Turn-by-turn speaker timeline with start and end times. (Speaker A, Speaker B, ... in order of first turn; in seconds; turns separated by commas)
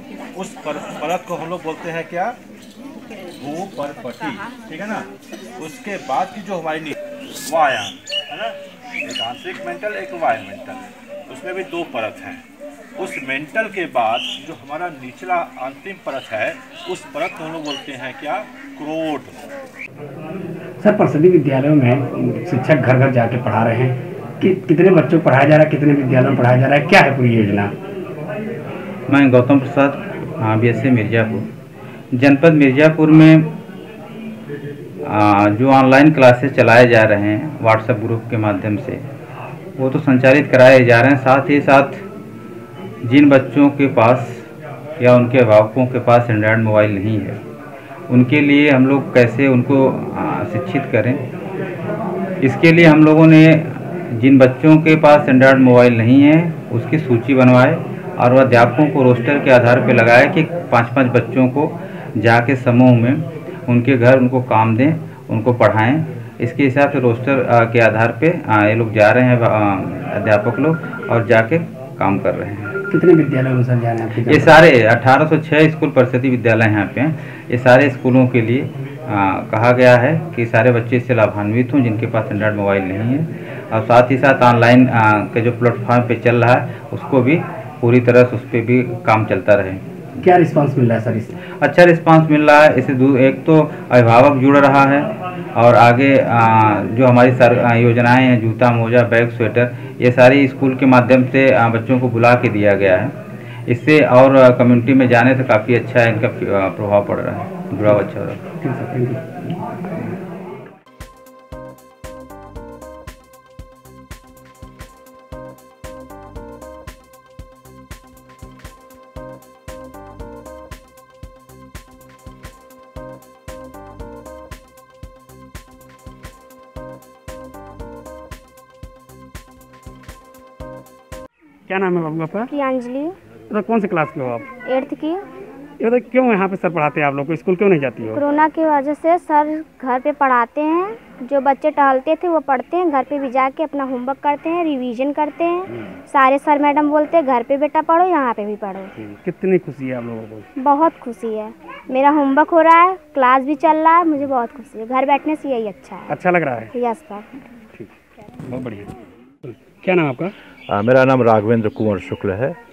Speaker A: 0.3-2.4, Speaker A: 3.4-12.5, Speaker A: 13.0-19.5, Speaker B: 20.8-27.7, Speaker C: 29.1-31.4, Speaker C: 32.1-33.5, Speaker C: 35.0-39.0, Speaker C: 39.8-42.0, Speaker C: 43.0-44.5, Speaker C: 45.0-47.4, Speaker C: 48.1-51.2, Speaker C: 52.4-72.7, Speaker B: 72.9-74.6, Speaker C: 74.3-89.8, Speaker B: 90.2-91.3, Speaker C: 91.6-103.1, Speaker C: 103.7-108.4, Speaker B: 108.6-109.2, Speaker B: 131.7-132.5, Speaker D: 132.5-133.2, Speaker B: 133.5-134.5, Speaker D: 134.7-135.2, Speaker B: 135.8-138.2, Speaker D: 138.1-148.9, Speaker B: 149.0-150.5, Speaker D: 150.6-156.1, Speaker B: 156.1-156.7, Speaker D: 156.7-157.4, Speaker B: 158.5-158.9, Speaker B: 159.4-160.3, Speaker A: 160.7-162.6